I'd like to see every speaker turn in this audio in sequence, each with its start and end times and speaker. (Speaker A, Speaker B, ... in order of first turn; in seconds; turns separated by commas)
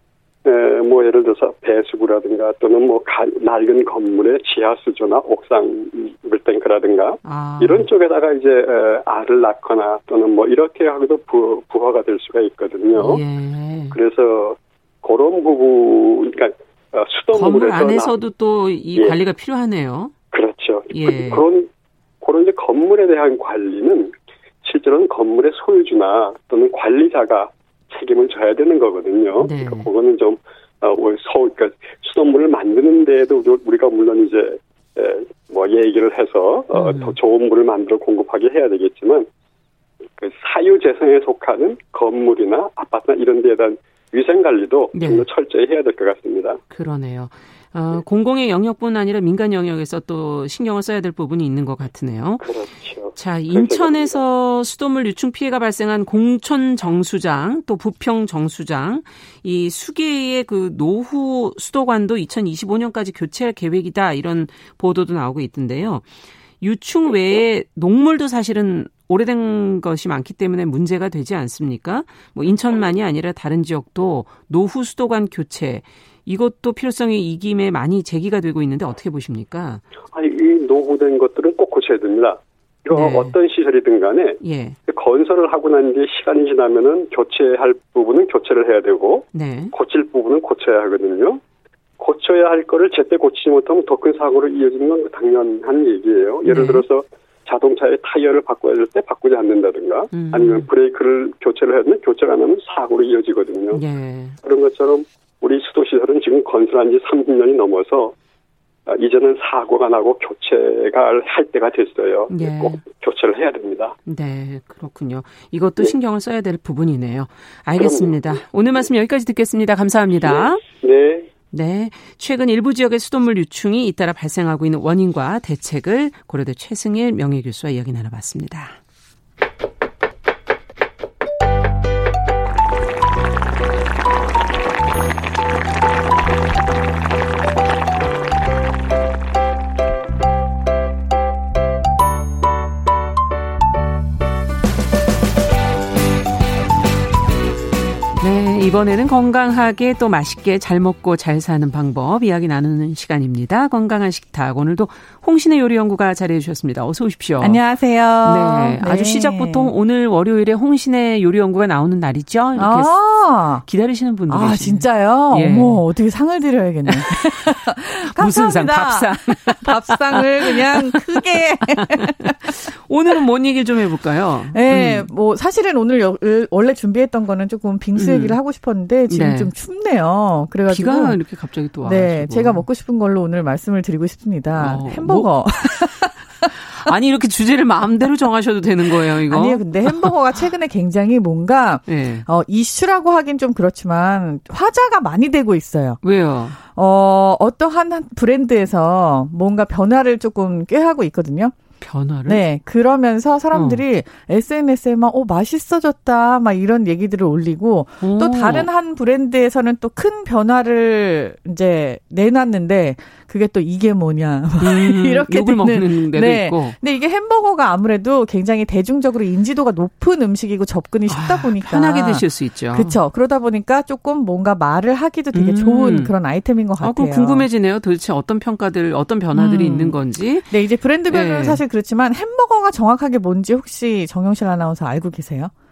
Speaker A: 0.4-13.2, Speaker B: 7.2-7.9, Speaker B: 13.0-14.0, Speaker A: 13.9-18.1, Speaker B: 17.3-20.1, Speaker A: 20.3-21.7, Speaker B: 20.9-21.4, Speaker A: 22.2-24.1, Speaker A: 24.6-39.3, Speaker B: 29.4-29.9, Speaker B: 36.7-37.1, Speaker A: 40.2-46.6, Speaker B: 44.9-45.2, Speaker B: 46.7-52.5, Speaker A: 52.4-54.2, Speaker B: 53.1-66.0, Speaker B: 66.6-79.8, Speaker A: 80.1-91.4, Speaker B: 82.9-83.3, Speaker B: 84.4-84.8, Speaker B: 89.3-89.7, Speaker A: 92.0-103.8, Speaker B: 96.5-96.8, Speaker B: 100.1-100.7, Speaker B: 103.7-104.4, Speaker A: 104.4-108.1, Speaker A: 108.9-113.9, Speaker B: 112.3-112.8, Speaker B: 114.1-120.7, Speaker A: 117.7-118.4, Speaker A: 120.2-121.3, Speaker B: 121.5-128.8, Speaker B: 148.2-157.6, Speaker C: 157.4-159.7, Speaker B: 158.2-163.0, Speaker C: 162.6-163.6, Speaker B: 163.6-165.8, Speaker C: 164.3-172.3, Speaker B: 166.9-167.5, Speaker B: 168.2-175.1, Speaker C: 174.5-181.2, Speaker B: 178.0-178.4, Speaker B: 179.1-179.5, Speaker B: 180.7-182.6, Speaker C: 181.8-186.9, Speaker B: 184.6-185.9, Speaker B: 186.4-190.1, Speaker C: 189.1-196.0, Speaker B: 191.9-192.2, Speaker B: 196.0-196.6, Speaker C: 196.6-201.5, Speaker B: 201.8-202.4, Speaker C: 202.2-227.5, Speaker B: 203.5-203.8, Speaker B: 208.0-208.7, Speaker B: 214.6-216.8, Speaker B: 221.1-222.9, Speaker B: 225.3-226.1, Speaker B: 226.8-230.6, Speaker C: 229.3-229.9, Speaker C: 230.5-235.5, Speaker B: 231.1-231.6